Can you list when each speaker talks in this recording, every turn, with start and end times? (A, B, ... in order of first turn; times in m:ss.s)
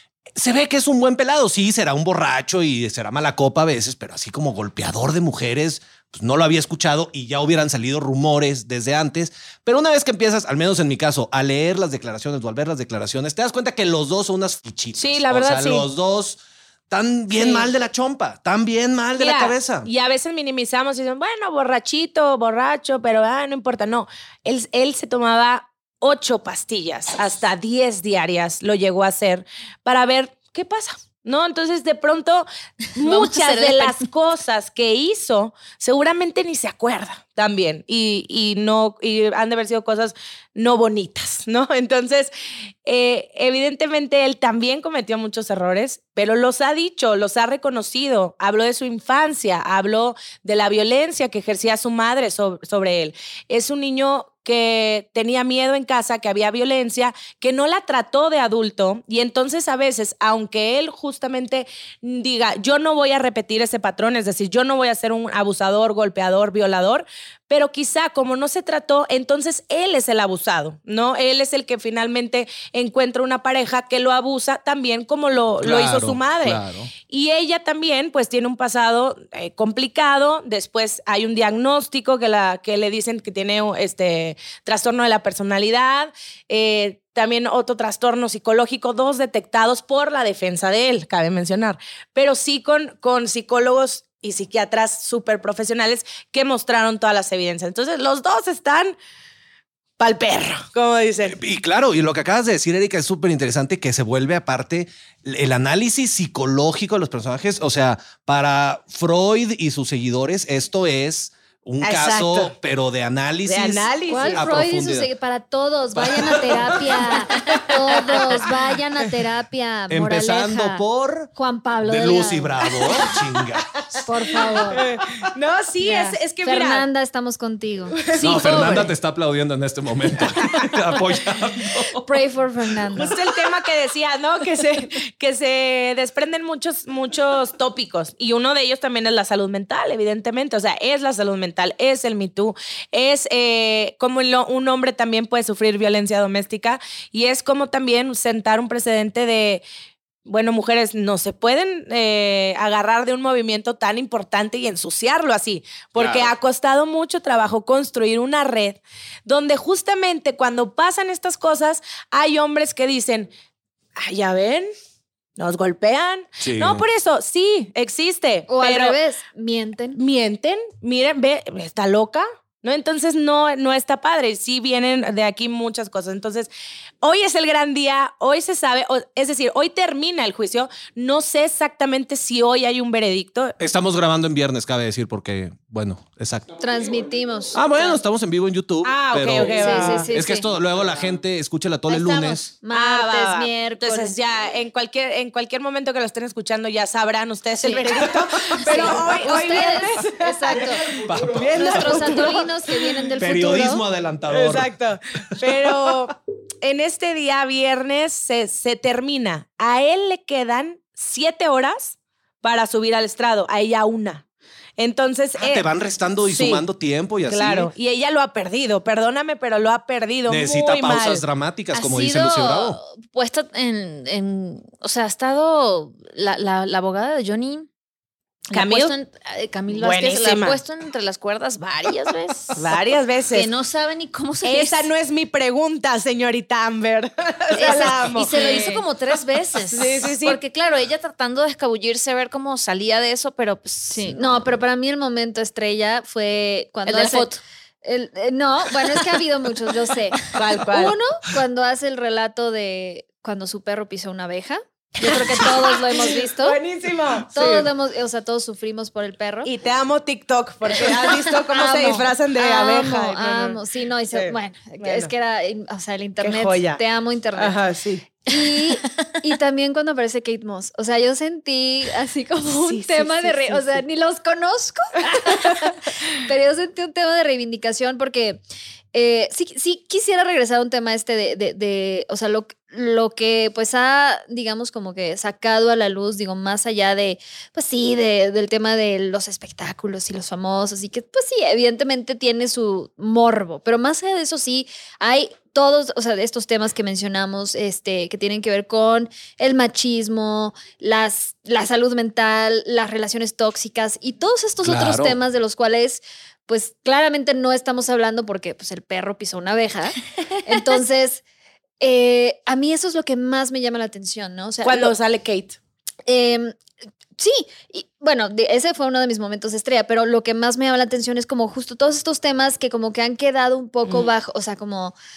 0:00.4-0:19.9 A
0:15.0-0:15.8 B
0:17.3-0:17.7 B
0:19.2-0:42.3 B
0:33.0-0:34.0 C
0:42.8-1:38.9 B
1:15.6-1:16.9 A
1:40.0-1:41.4 B
1:41.3-1:55.1 A
1:51.8-1:52.5 B
1:53.4-1:54.4 B
1:54.1-2:00.8 D
1:55.9-1:57.0 A
1:58.0-1:58.4 B
1:59.9-2:01.3 A
2:01.3-2:03.1 D
2:01.8-2:03.8 A
2:04.0-2:04.8 D
2:04.6-2:06.8 B
2:05.8-2:08.9 D
2:08.0-2:08.8 B
2:08.2-2:12.0 A
2:12.0-2:13.2 D
2:12.9-2:29.6 B
2:30.2-2:43.3 B
2:36.0-2:36.3 A
2:44.0-2:44.7 B
2:45.4-2:49.0 B
2:46.4-2:46.8 A
2:48.5-2:50.0 D
2:49.9-2:56.5 B
2:57.0-3:03.5 B
3:03.6-3:06.5 A
3:06.6-3:08.0 D
3:07.5-3:12.5 A
3:08.8-3:10.1 B
3:09.5-3:10.4 D
3:11.9-3:14.1 D
3:12.7-3:22.5 B
3:17.6-3:21.0 D
3:21.0-3:22.2 A
3:21.6-3:23.8 D
3:23.2-3:24.7 A
3:24.3-3:34.2 B
3:34.8-3:35.7 B
3:35.4-3:37.7 A
3:36.2-3:36.6 B
3:37.3-3:41.2 B
3:40.3-3:42.8 A
3:41.7-3:47.7 C
3:48.5-3:52.7 C
3:48.5-3:48.9 B
3:49.7-3:50.6 B
3:52.6-3:53.5 B
3:53.3-3:54.9 C
3:54.4-3:58.7 B
3:57.5-4:04.5 C
3:58.3-3:58.8 D
3:59.7-4:00.4 B
4:03.9-4:07.3 D
4:06.8-4:07.4 C
4:07.8-4:16.6 D
4:10.3-4:11.0 B
4:15.2-4:17.7 B
4:17.3-4:19.5 D
4:19.4-4:23.6 B
4:20.8-4:27.6 D
4:24.1-4:25.1 B
4:26.2-4:26.8 B
4:27.4-4:28.0 B
4:28.2-4:38.4 D
4:32.6-4:33.8 B
4:35.2-4:35.6 B
4:38.9-5:11.2 D
5:04.6-5:05.2 A
5:11.8-5:14.9 D
5:14.6-5:15.6 B
5:16.0-5:16.5 D
5:17.2-5:24.9 D
5:23.8-5:24.1 B